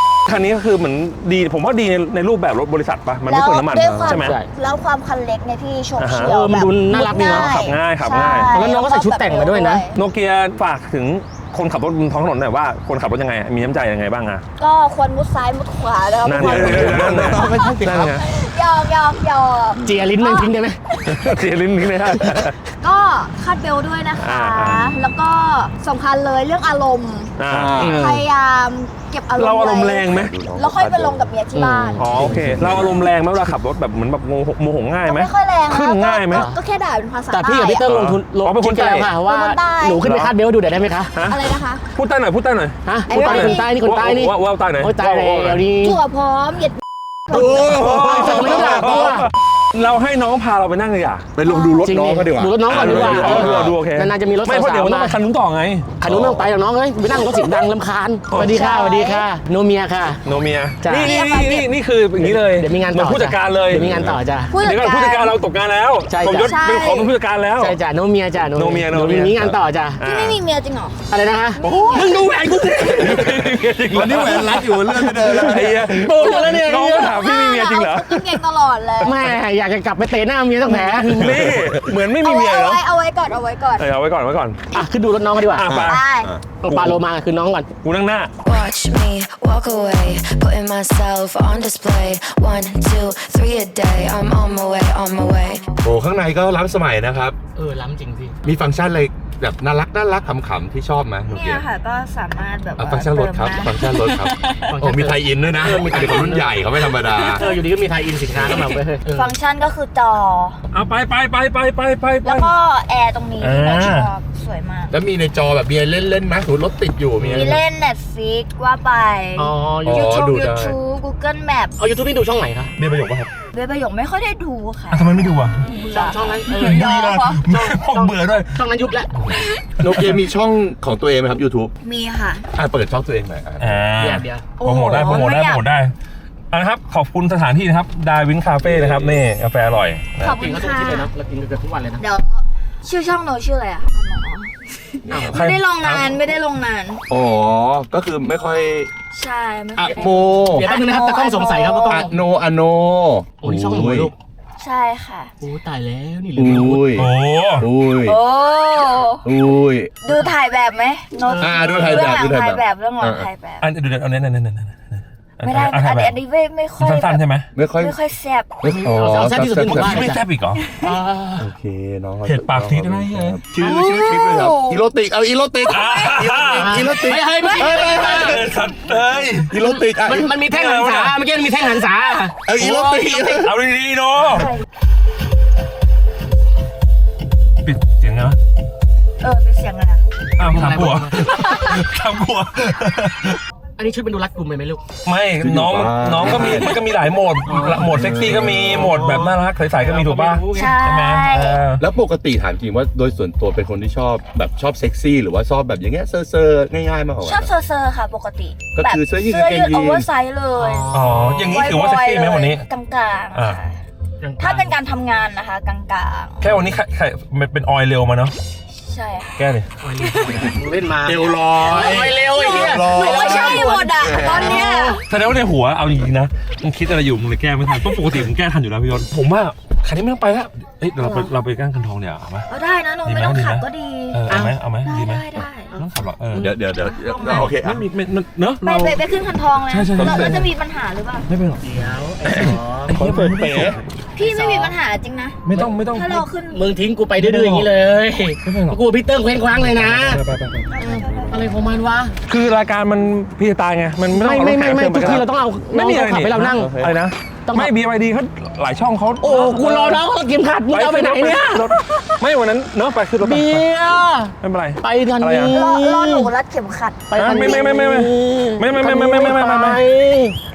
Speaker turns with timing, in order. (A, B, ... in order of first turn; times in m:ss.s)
0:00.3-0:04.4 A
0:03.3-0:10.0 B
0:03.8-0:04.2 C
0:04.1-0:04.5 D
0:06.0-0:06.4 A
0:06.2-0:07.5 D
0:07.0-0:08.7 A
0:08.4-0:09.8 D
0:09.9-0:14.4 A
0:14.6-0:21.4 B
0:16.2-0:17.5 A
0:16.4-0:18.2 C
0:17.8-0:18.2 D
0:19.8-0:20.8 D
0:21.1-0:22.6 A
0:22.2-0:22.5 D
0:22.8-0:27.3 B
0:24.2-0:25.0 A
0:27.4-0:27.8 A
0:27.5-0:28.1 C
0:27.8-0:28.2 D
0:27.8-0:32.0 B
0:29.4-0:30.4 A
0:30.1-0:31.3 C
0:31.6-0:32.8 D
0:32.0-0:36.5 A
0:32.1-0:33.1 C
0:35.0-0:37.9 B
0:36.3-0:36.6 D
0:37.3-0:41.1 D
0:37.8-0:39.1 A
0:39.2-0:40.0 B
0:40.0-0:40.3 A
0:41.2-0:41.4 A
0:41.3-0:41.8 B
0:41.9-0:45.6 A
0:42.9-0:46.0 D
0:43.1-0:43.7 B
0:45.8-0:47.8 B
0:47.3-0:49.3 C
0:47.4-0:49.3 D
0:47.8-0:51.3 A
0:51.4-0:53.8 C
0:51.5-0:51.8 B
0:51.8-0:55.2 D
0:52.7-0:55.9 A
0:56.0-1:00.2 D
0:56.0-0:56.5 C
0:58.3-0:58.6 A
0:58.4-0:59.3 B
1:00.2-1:03.9 A
1:00.8-1:01.1 D
1:01.0-1:01.7 B
1:02.2-1:04.5 D
1:03.7-1:04.2 C
1:04.5-1:05.3 B
1:04.6-1:07.8 A
1:06.1-1:06.6 D
1:06.4-1:07.1 B
1:07.6-1:10.0 D
1:08.5-1:10.4 A
1:10.0-1:11.0 B
1:11.1-1:17.1 D
1:11.6-1:12.2 B
1:11.7-1:12.2 A
1:12.8-1:18.4 A
1:13.8-1:16.1 C
1:16.2-1:19.2 B
1:19.0-1:21.5 D
1:21.0-1:22.8 A
1:21.2-1:21.9 C
1:22.2-1:23.9 B
1:23.8-1:24.6 A
1:24.7-1:25.7 D
1:25.5-1:27.0 A
1:25.6-1:26.4 C
1:25.9-1:26.3 B
1:26.6-1:27.7 D
1:27.8-1:28.3 A
1:28.4-1:35.8 E
1:34.3-1:35.9 B
1:35.8-1:37.4 C
1:37.6-1:38.4 D
1:38.4-1:41.7 C
1:41.3-1:44.8 B
1:42.8-1:47.5 C
1:44.7-1:46.6 D
1:45.9-1:47.6 B
1:47.4-1:49.3 D
1:48.3-1:48.7 C
1:48.5-1:50.6 B
1:50.7-1:52.5 A
1:52.2-1:55.0 B
1:53.4-1:54.1 A
1:54.9-1:57.6 C
1:57.2-1:57.6 D
1:57.3-2:01.7 B
1:59.4-2:00.1 D
1:59.8-2:00.8 C
2:01.8-2:02.7 D
2:02.8-2:03.3 A
2:02.8-2:03.3 C
2:03.5-2:07.4 B
2:04.9-2:05.6 A
2:05.7-2:09.1 D
2:06.6-2:08.6 A
2:09.2-2:10.1 A
2:09.3-2:09.6 B
2:09.8-2:11.7 C
2:11.8-2:12.5 B
2:12.5-2:13.8 C
2:13.6-2:15.9 A
2:14.0-2:14.5 D
2:14.6-2:15.6 B
2:16.5-2:20.1 A
2:18.6-2:19.2 C
2:20.2-2:21.1 B
2:20.2-2:22.0 D
2:22.0-2:27.0 B
2:25.1-2:25.4 C
2:25.1-2:25.3 D
2:25.3-2:26.2 A
2:27.1-2:28.9 C
2:29.1-2:32.1 B
2:29.8-2:30.7 C
2:30.5-2:32.1 D
2:31.9-2:34.1 C
2:33.4-2:34.1 D
2:34.6-2:35.3 B
2:35.4-2:37.0 D
2:36.4-2:38.2 C
2:37.0-2:37.7 A
2:38.0-2:39.3 B
2:39.2-2:39.9 C
2:40.0-2:43.7 B
2:41.2-2:42.2 D
2:41.4-2:43.3 C
2:43.6-2:46.2 A
2:45.4-2:47.2 B
2:46.8-2:47.5 A
2:47.6-2:48.0 C
2:47.8-2:48.5 B
2:48.6-2:50.2 C
2:48.7-2:50.2 D
2:49.7-2:50.7 A
2:50.6-2:51.0 B
2:50.8-2:51.5 D
2:51.4-2:58.6 C
2:52.3-2:53.7 A
2:53.6-2:54.9 B
2:55.7-2:56.9 A
2:56.5-2:58.4 D
2:57.4-2:57.8 B
2:57.8-2:59.5 A
2:59.4-3:00.3 C
2:59.6-3:03.4 D
3:00.3-3:01.2 A
3:02.5-3:03.5 C
3:03.4-3:04.5 A
3:04.3-3:04.6 B
3:07.6-3:08.4 A
3:09.2-3:10.0 B
3:10.4-3:13.4 A
3:10.4-3:11.3 D
3:11.2-3:11.8 B
3:13.8-3:14.8 D
3:15.0-3:21.8 A
3:15.4-3:16.8 C
3:17.5-3:20.8 D
3:17.7-3:19.0 C
3:20.5-3:21.6 B
3:21.8-3:27.5 C
3:27.2-3:30.9 B
3:28.7-3:30.1 C
3:30.6-3:31.5 D
3:30.9-3:32.6 A
3:31.4-3:33.8 B
3:33.3-3:33.6 A
3:34.2-3:34.8 D
3:34.4-3:36.5 B
3:36.4-3:38.3 A
3:38.7-3:39.4 B
3:39.4-3:39.7 A
3:39.8-3:45.0 D
3:40.0-3:40.6 B
3:41.0-3:44.6 C
3:41.7-3:45.0 B
3:45.1-3:52.5 A
3:51.0-3:51.3 B
3:52.5-3:54.2 B
3:53.0-3:56.6 A
3:54.3-3:54.6 D
3:54.8-3:55.7 B
3:56.4-3:57.9 C
3:56.6-3:57.5 B
3:57.4-3:59.0 A
3:58.6-4:01.3 B
3:59.7-4:00.5 A
4:00.0-4:00.4 C
4:01.3-4:01.6 A
4:01.6-4:03.3 D
4:02.2-4:03.8 A
4:02.3-4:03.8 C
4:04.2-4:06.7 B
4:04.2-4:04.7 D
4:05.4-4:06.3 A
4:06.5-4:10.2 D
4:07.2-4:07.7 A
4:08.4-4:08.8 A
4:09.6-4:10.7 A
4:10.7-4:11.7 B
4:10.8-4:12.1 D
4:11.1-4:11.4 C
4:12.3-4:20.0 A
4:14.1-4:16.7 D
4:16.5-4:17.0 C
4:17.5-4:17.7 D
4:19.2-4:21.7 D
4:20.7-4:23.7 A
4:23.2-4:26.3 D
4:24.4-4:25.6 A
4:25.5-4:27.8 B
4:27.1-4:30.4 D
4:27.2-4:29.8 A